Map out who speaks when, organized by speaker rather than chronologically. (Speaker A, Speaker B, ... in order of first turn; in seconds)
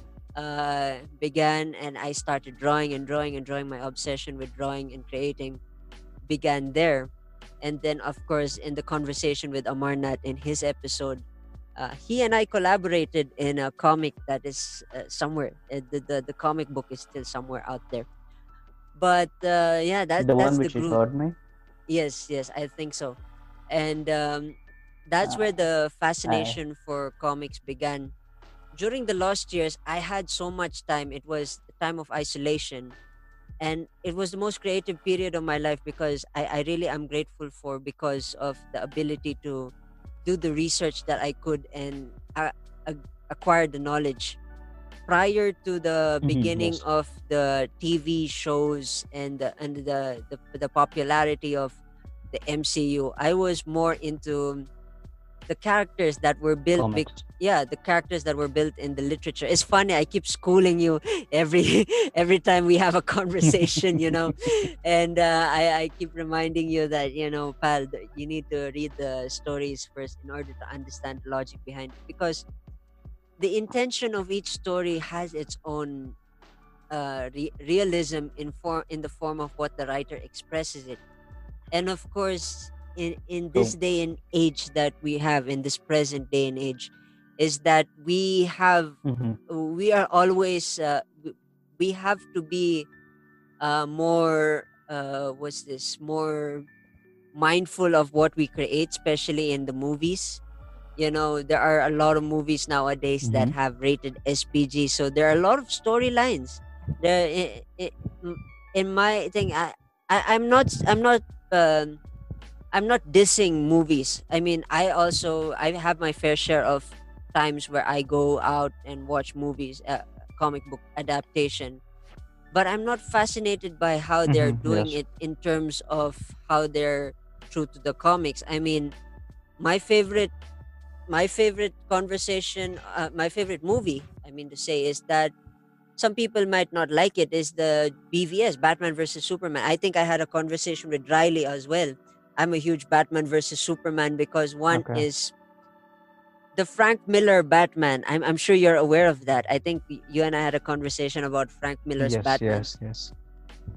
Speaker A: 0.3-5.6, 6.2-7.1, 7.6-11.2, 11.8-18.1, 19.0-21.0, 21.9-23.2, 23.7-28.1, 28.7-33.0, 33.6-39.7, 40.2-44.4, 45.1-51.8, 52.3-54.7, 55.5-72.5, 73.4-76.2, 76.9-81.0, 81.7-89.0, 89.5-92.9, 93.6-96.7, 97.3-100.4, 101.0-112.0, 112.7-121.8, 122.5-128.9, 129.6-130.3, 131.1-135.3, 136.0-145.3, 146.6-152.7
Speaker B: 20.2-21.4, 26.2-26.6, 46.2-46.8, 56.8-57.2, 63.6-64.2, 89.0-89.4, 103.2-103.5, 124.3-125.0, 144.7-145.1, 152.0-153.1